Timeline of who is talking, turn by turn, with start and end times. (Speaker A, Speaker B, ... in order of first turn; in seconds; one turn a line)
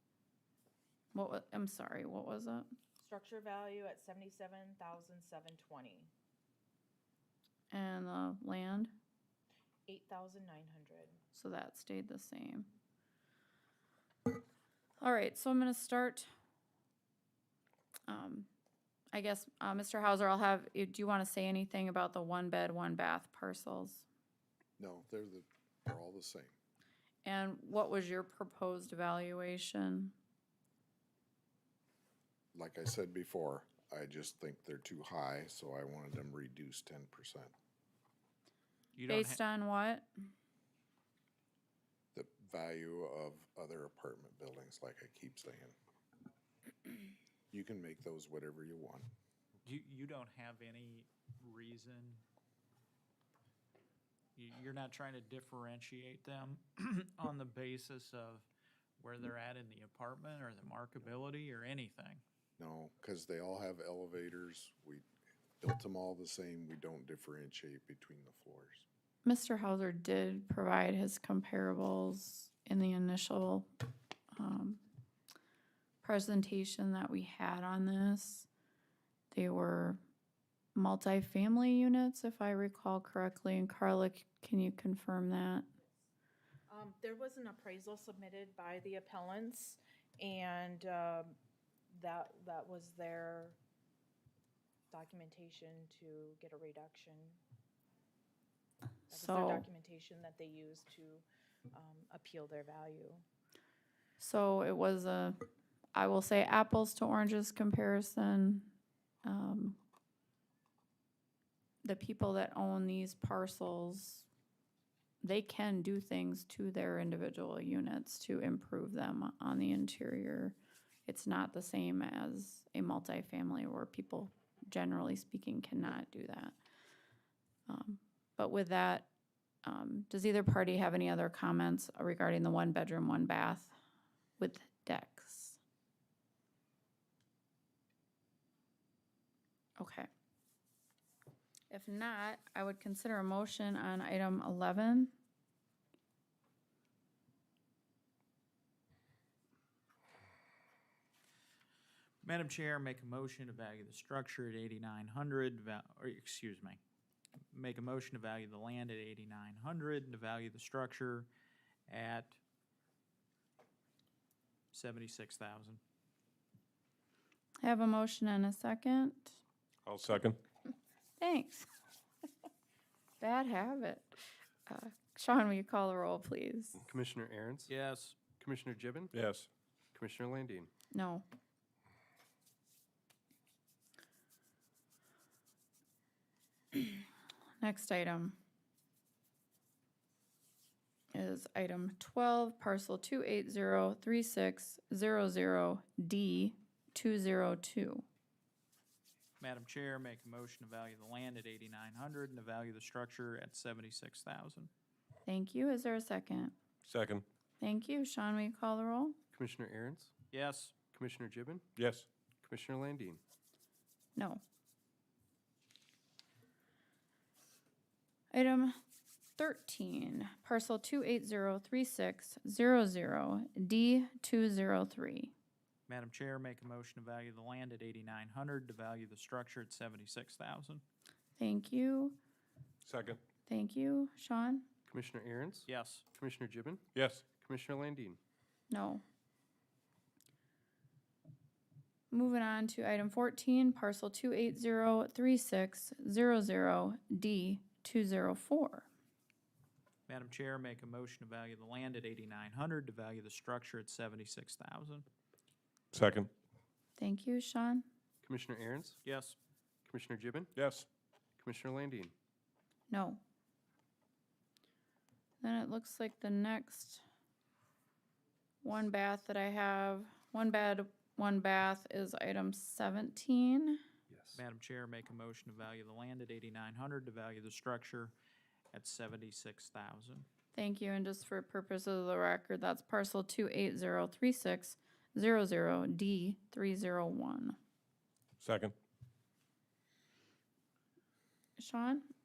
Speaker A: 1.1-2.7
Speaker B: 3.0-6.1
Speaker A: 7.7-8.9
Speaker B: 9.9-11.2
Speaker A: 11.3-12.7
Speaker A: 15.0-16.3
Speaker A: 18.1-18.5
Speaker A: 19.1-24.1
Speaker C: 24.8-26.5
Speaker A: 27.2-30.1
Speaker C: 32.5-37.5
Speaker D: 39.0-39.4
Speaker A: 39.1-40.1
Speaker C: 42.1-45.7
Speaker C: 47.5-49.1
Speaker D: 49.6-52.2
Speaker D: 54.4-58.5
Speaker D: 59.0-62.2
Speaker C: 62.6-65.0
Speaker C: 65.6-68.8
Speaker A: 69.2-73.7
Speaker A: 74.3-74.8
Speaker A: 76.0-78.5
Speaker A: 79.3-80.0
Speaker A: 80.7-85.7
Speaker B: 86.7-91.4
Speaker B: 91.9-93.6
Speaker B: 94.9-97.4
Speaker B: 99.1-103.2
Speaker A: 99.1-99.7
Speaker A: 104.2-105.4
Speaker A: 105.9-108.7
Speaker A: 109.2-109.8
Speaker A: 111.8-114.3
Speaker A: 115.2-126.6
Speaker A: 127.7-129.1
Speaker A: 129.6-133.7
Speaker A: 134.4-135.6
Speaker A: 139.8-140.1
Speaker A: 141.7-145.1
Speaker D: 152.2-156.8
Speaker D: 157.5-161.3
Speaker D: 161.9-162.4
Speaker D: 164.7-165.8
Speaker A: 167.6-169.4
Speaker E: 169.8-170.4
Speaker F: 170.1-170.4
Speaker A: 171.2-171.7
Speaker A: 173.2-176.8
Speaker F: 176.8-177.7
Speaker D: 177.7-178.2
Speaker F: 178.4-179.3
Speaker E: 179.1-179.5
Speaker F: 179.9-180.7
Speaker A: 180.9-181.2
Speaker A: 186.7-187.1
Speaker A: 187.6-188.4
Speaker A: 191.1-198.0
Speaker D: 199.4-204.7
Speaker A: 205.2-206.5
Speaker E: 206.8-207.2
Speaker A: 207.6-209.2
Speaker F: 209.3-210.1
Speaker D: 210.3-210.7
Speaker F: 210.9-213.2
Speaker E: 211.8-212.0
Speaker A: 214.2-214.4
Speaker A: 218.3-218.7
Speaker A: 219.4-225.3
Speaker D: 225.9-230.8
Speaker A: 231.4-232.2
Speaker E: 232.8-233.2
Speaker A: 233.5-234.7
Speaker F: 234.9-238.2
Speaker D: 235.7-236.0
Speaker E: 236.9-237.2
Speaker A: 238.7-239.0
Speaker A: 242.1-248.9
Speaker D: 250.1-255.0
Speaker E: 255.9-256.3
Speaker F: 255.9-256.3
Speaker A: 257.0-257.9
Speaker F: 258.2-259.0
Speaker D: 259.0-259.4
Speaker F: 259.8-260.8
Speaker E: 260.6-260.8
Speaker F: 261.4-262.1
Speaker A: 262.9-263.2
Speaker A: 265.4-267.0
Speaker A: 268.6-273.8
Speaker D: 274.3-278.1
Speaker D: 278.7-280.2
Speaker A: 280.5-287.6
Speaker E: 288.4-288.7
Speaker F: 288.4-288.7
Speaker A: 291.6-292.1